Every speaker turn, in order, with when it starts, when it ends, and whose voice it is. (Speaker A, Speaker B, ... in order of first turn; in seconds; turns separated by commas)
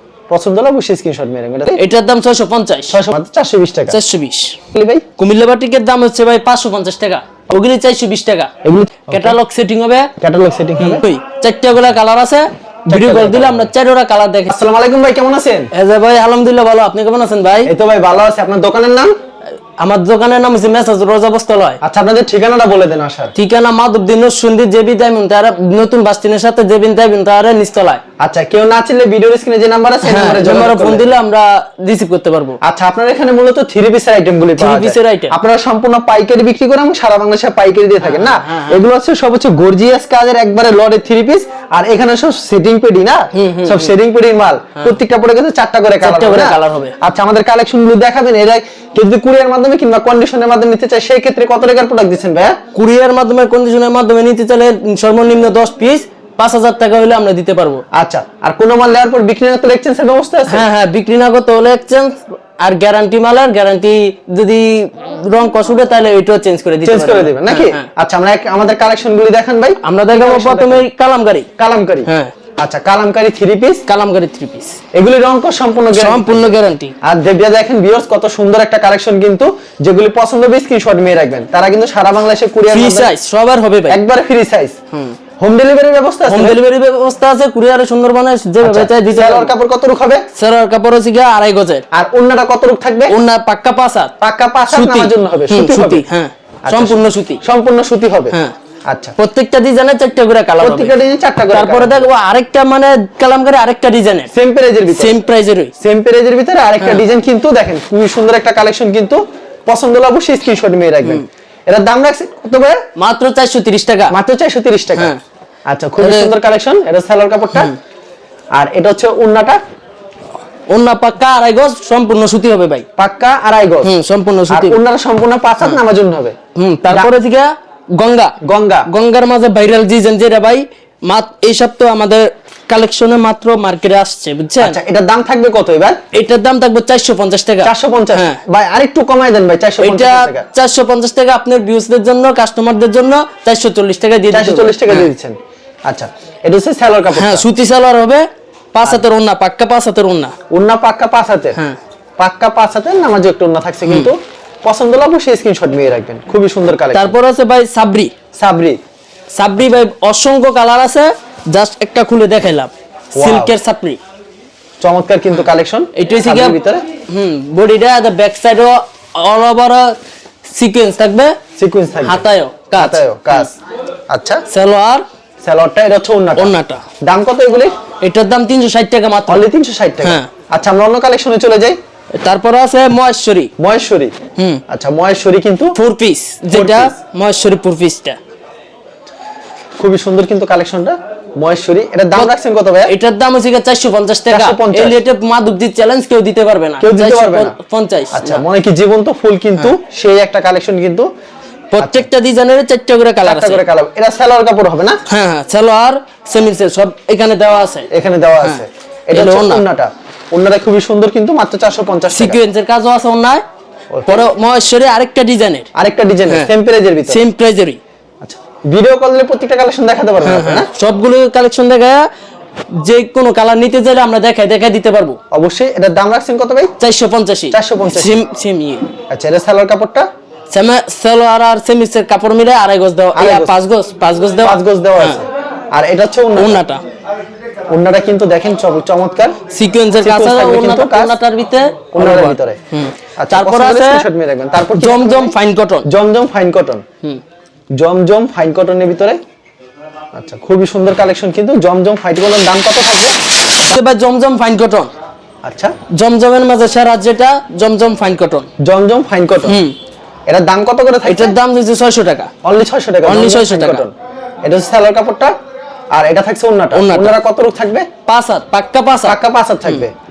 Speaker A: 0.3-1.8, Speaker B: 1.8-3.0, Speaker A: 2.9-4.0, Speaker B: 3.9-4.6, Speaker A: 4.7-5.1, Speaker B: 5.2-8.5, Speaker A: 8.6-9.4, Speaker B: 9.1-10.1, Speaker A: 10.2-11.0, Speaker B: 10.8-14.6, Speaker A: 12.9-13.7, Speaker A: 14.5-15.7, Speaker B: 15.7-17.7, Speaker A: 17.6-19.1, Speaker B: 19.8-21.8, Speaker A: 21.8-23.3, Speaker B: 23.3-28.0, Speaker A: 28.2-31.1, Speaker B: 30.0-32.6, Speaker A: 32.6-52.6, Speaker B: 34.6-35.3, Speaker B: 38.0-38.8, Speaker B: 43.3-43.9, Speaker B: 46.0-47.0, Speaker B: 52.7-57.8, Speaker A: 57.9-60.7, Speaker B: 60.5-67.9, Speaker A: 66.8-70.9, Speaker B: 69.8-71.5, Speaker A: 71.6-73.8, Speaker B: 72.0-72.3, Speaker B: 73.9-74.8, Speaker A: 74.9-83.1, Speaker B: 75.9-76.9, Speaker B: 82.7-84.0, Speaker A: 83.9-84.8, Speaker B: 84.9-85.2, Speaker A: 85.4-86.6, Speaker B: 86.3-89.5, Speaker A: 88.6-90.2, Speaker B: 90.3-91.8, Speaker A: 91.9-93.2, Speaker B: 93.1-94.1, Speaker A: 94.2-96.0, Speaker B: 94.7-97.4, Speaker A: 96.7-98.3, Speaker A: 98.9-99.1, Speaker B: 99.2-100.9, Speaker A: 100.6-102.1, Speaker B: 101.5-104.3, Speaker A: 104.3-105.2, Speaker B: 104.9-105.7, Speaker A: 105.8-112.8, Speaker B: 113.0-114.1, Speaker A: 114.1-115.1, Speaker A: 115.7-117.7, Speaker B: 116.0-116.3, Speaker A: 118.5-119.6, Speaker B: 120.7-122.8, Speaker A: 123.0-123.9, Speaker B: 123.8-124.8, Speaker A: 124.5-127.1, Speaker B: 126.5-128.3, Speaker A: 128.4-128.9, Speaker B: 128.9-134.8, Speaker A: 134.6-136.0, Speaker B: 136.1-138.4, Speaker A: 137.6-140.5, Speaker B: 139.8-145.1, Speaker A: 144.3-145.4, Speaker A: 145.9-147.4, Speaker B: 147.1-150.3, Speaker A: 150.5-151.6, Speaker A: 152.2-157.1, Speaker B: 153.8-154.1, Speaker B: 156.9-158.1, Speaker A: 158.3-158.8, Speaker B: 159.4-164.0, Speaker A: 163.2-163.6, Speaker A: 164.8-166.8, Speaker B: 165.3-169.9, Speaker B: 170.5-171.4, Speaker A: 171.6-172.2, Speaker B: 172.0-173.5, Speaker A: 172.7-173.6, Speaker A: 174.1-174.4, Speaker B: 174.5-175.0, Speaker A: 175.4-177.8, Speaker B: 176.4-176.8, Speaker B: 178.0-179.4, Speaker A: 179.3-181.8, Speaker B: 180.0-180.3, Speaker B: 182.2-183.5, Speaker A: 183.6-184.1, Speaker B: 184.4-184.6, Speaker A: 184.7-185.8, Speaker B: 185.8-188.2, Speaker A: 186.5-186.9, Speaker A: 189.8-192.9, Speaker B: 192.9-198.4, Speaker A: 194.3-195.0, Speaker A: 196.8-197.6, Speaker A: 198.1-201.1, Speaker B: 201.7-203.6, Speaker A: 201.8-202.1, Speaker A: 203.2-205.0, Speaker B: 205.1-207.9, Speaker A: 207.9-212.4, Speaker B: 208.4-209.6, Speaker B: 212.1-213.4, Speaker A: 213.9-214.3, Speaker B: 214.1-215.7, Speaker A: 215.8-217.2, Speaker B: 217.1-217.8, Speaker A: 218.2-220.7, Speaker B: 220.2-222.0, Speaker B: 222.8-225.2, Speaker A: 225.3-226.7, Speaker B: 226.8-228.9, Speaker A: 227.5-228.2, Speaker A: 229.1-230.1, Speaker B: 230.5-235.2, Speaker A: 233.1-233.6, Speaker A: 234.4-236.6, Speaker B: 236.3-236.8, Speaker A: 237.7-239.4, Speaker B: 239.5-244.1, Speaker A: 240.0-241.2, Speaker A: 241.9-242.6, Speaker A: 243.2-245.3, Speaker B: 244.8-245.8, Speaker A: 245.8-246.8, Speaker A: 247.8-249.2, Speaker A: 250.1-253.1, Speaker B: 253.6-254.9, Speaker A: 255.4-255.8, Speaker B: 255.9-258.5, Speaker A: 258.6-259.6, Speaker B: 259.4-259.8, Speaker A: 260.3-261.3, Speaker B: 261.1-262.3, Speaker A: 262.4-263.9, Speaker B: 263.0-263.8, Speaker A: 264.4-265.3, Speaker A: 265.9-267.9, Speaker B: 266.7-267.1, Speaker B: 268.1-269.8, Speaker A: 269.0-269.9